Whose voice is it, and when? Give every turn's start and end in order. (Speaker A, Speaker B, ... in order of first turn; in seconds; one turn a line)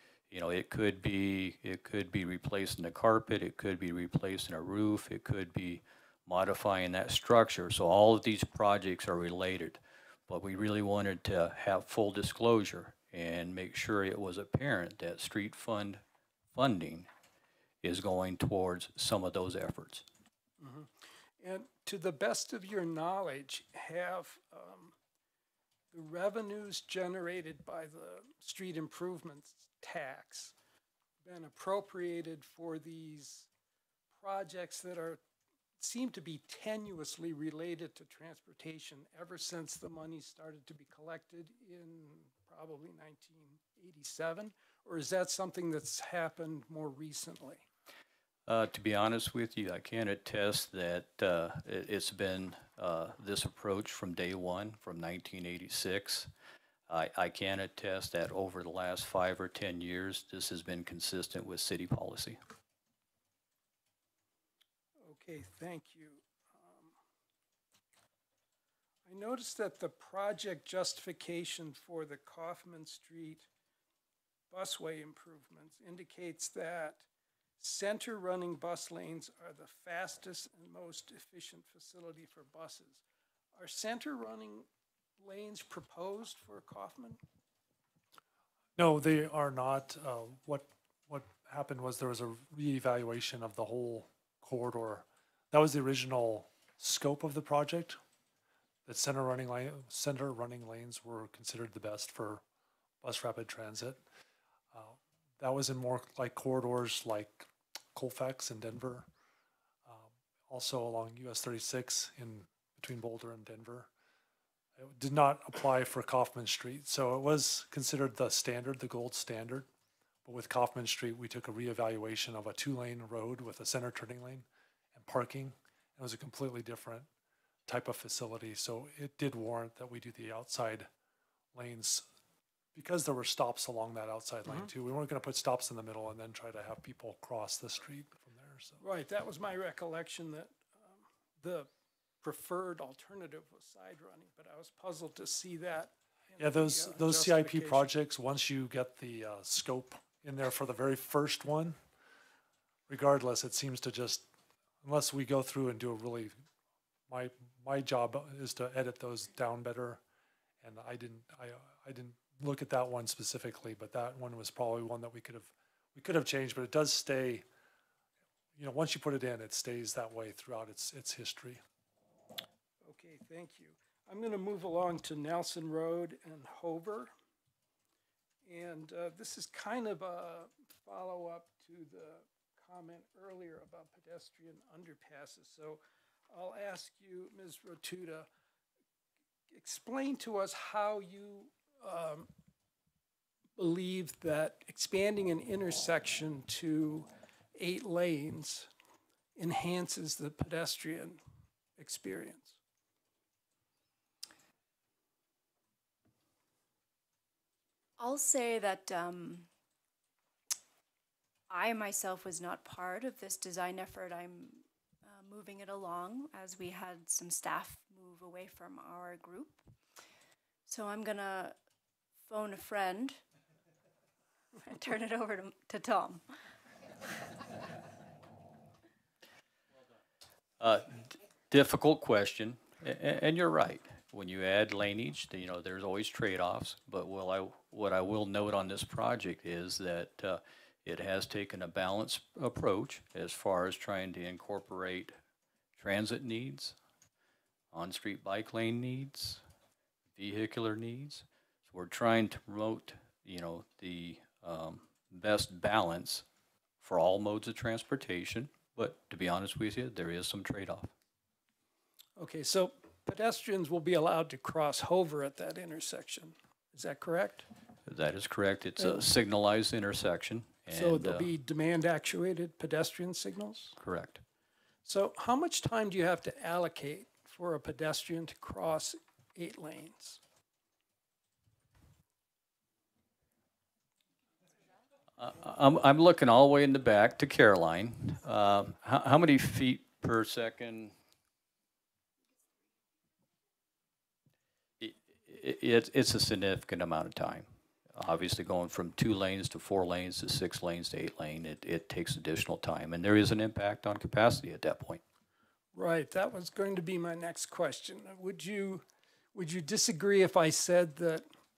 Speaker A: 0.3-16.0
Speaker A: 16.5-17.1
Speaker A: 17.8-20.0
Speaker B: 20.6-24.9
Speaker B: 25.9-30.5
Speaker B: 31.2-33.5
Speaker B: 34.1-35.2
Speaker B: 35.8-47.6
Speaker A: 48.5-56.3
Speaker A: 56.9-62.4
Speaker B: 65.0-67.0
Speaker B: 69.0-73.5
Speaker B: 74.5-77.0
Speaker B: 77.6-83.0
Speaker B: 83.5-84.7
Speaker B: 85.2-87.2
Speaker C: 88.8-98.0
Speaker C: 98.8-102.4
Speaker C: 103.0-104.0
Speaker C: 104.7-109.1
Speaker C: 109.9-113.9
Speaker C: 114.8-119.7
Speaker C: 120.2-127.1
Speaker C: 127.7-130.9
Speaker C: 131.5-132.1
Speaker C: 132.7-138.8
Speaker B: 138.8-141.7
Speaker B: 142.2-147.9
Speaker C: 146.4-151.8
Speaker C: 152.9-154.2
Speaker C: 154.8-156.4
Speaker C: 157.1-160.0
Speaker C: 160.6-167.4
Speaker C: 168.6-171.6
Speaker B: 172.8-177.1
Speaker B: 178.4-188.3
Speaker B: 189.5-192.3
Speaker B: 193.6-198.7
Speaker B: 199.3-201.2
Speaker B: 201.8-202.6
Speaker D: 208.0-209.5
Speaker D: 211.5-219.6
Speaker D: 220.7-221.5
Speaker D: 222.3-223.2
Speaker D: 224.6-226.2
Speaker A: 230.6-245.1
Speaker A: 245.8-246.8
Speaker A: 247.7-249.4
Speaker A: 250.1-256.2
Speaker A: 256.8-260.9
Speaker B: 262.2-267.4
Speaker A: 267.9-271.3
Speaker B: 270.7-273.7
Speaker A: 273.8-274.2
Speaker B: 274.8-280.2
Speaker A: 285.2-290.9
Speaker A: 294.8-305.0
Speaker B: 305.7-311.2